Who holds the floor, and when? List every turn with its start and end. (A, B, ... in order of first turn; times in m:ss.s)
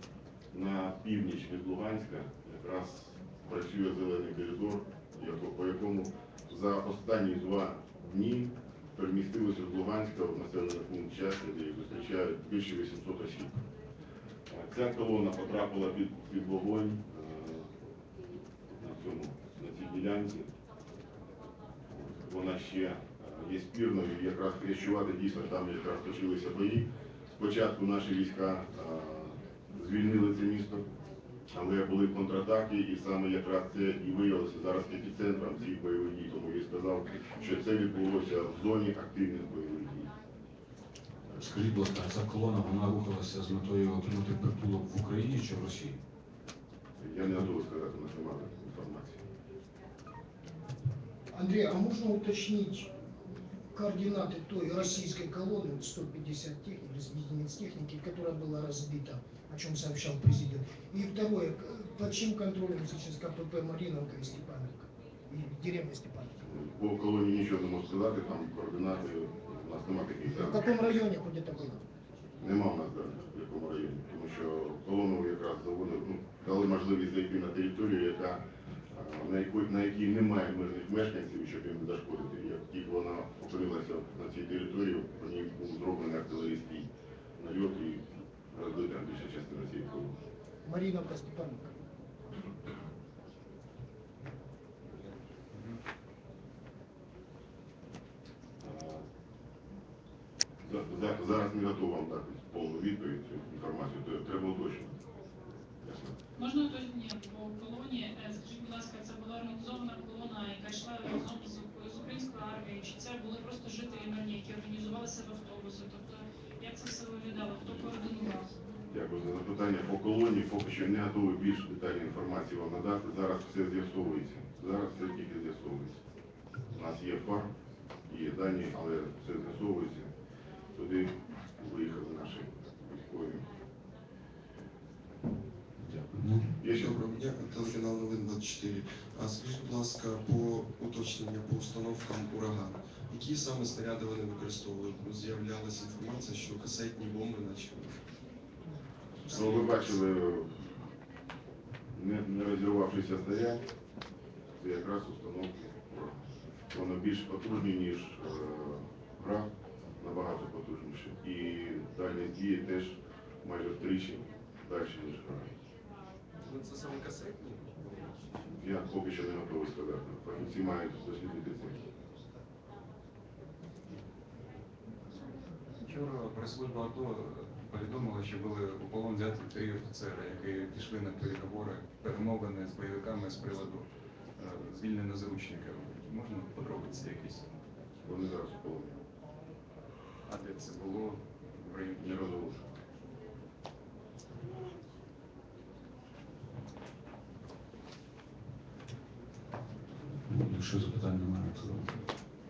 0:00.5-0:13.6 A
0:14.5-0:17.6 A
0:18.7-0:20.5 A
0:21.9-0:30.8 A
0:31.5-0:40.1 A
0:41.3-0:46.0 B
0:47.0-0:49.2 A
0:51.3-0:52.9 C
0:53.7-1:06.4 C
1:06.4-1:10.6 A
1:10.3-1:11.8 C
1:12.4-1:18.4 A
1:18.9-1:26.8 A
1:27.4-1:28.0 A
1:28.5-1:30.1 A
1:30.6-1:31.7 C
1:38.6-1:39.0 A
1:40.6-1:44.9 A
1:45.8-1:46.1 A
1:46.4-1:58.5 D
1:58.9-2:06.0 A
2:06.7-2:07.5 A
2:08.1-2:10.1 A
2:10.8-2:13.4 A
2:16.6-2:17.0 A
2:16.6-2:28.0 E
2:29.3-2:30.5 A
2:31.9-2:33.6 A
2:34.6-2:36.1 A
2:36.7-2:39.5 A
2:40.0-2:45.5 A
2:46.4-2:48.4 E
2:48.6-2:51.8 A
2:55.8-3:03.8 F
3:04.4-3:07.4 F
3:08.0-3:08.9 A
3:10.3-3:12.2 F
3:12.0-3:12.6 A
3:20.2-3:22.0 B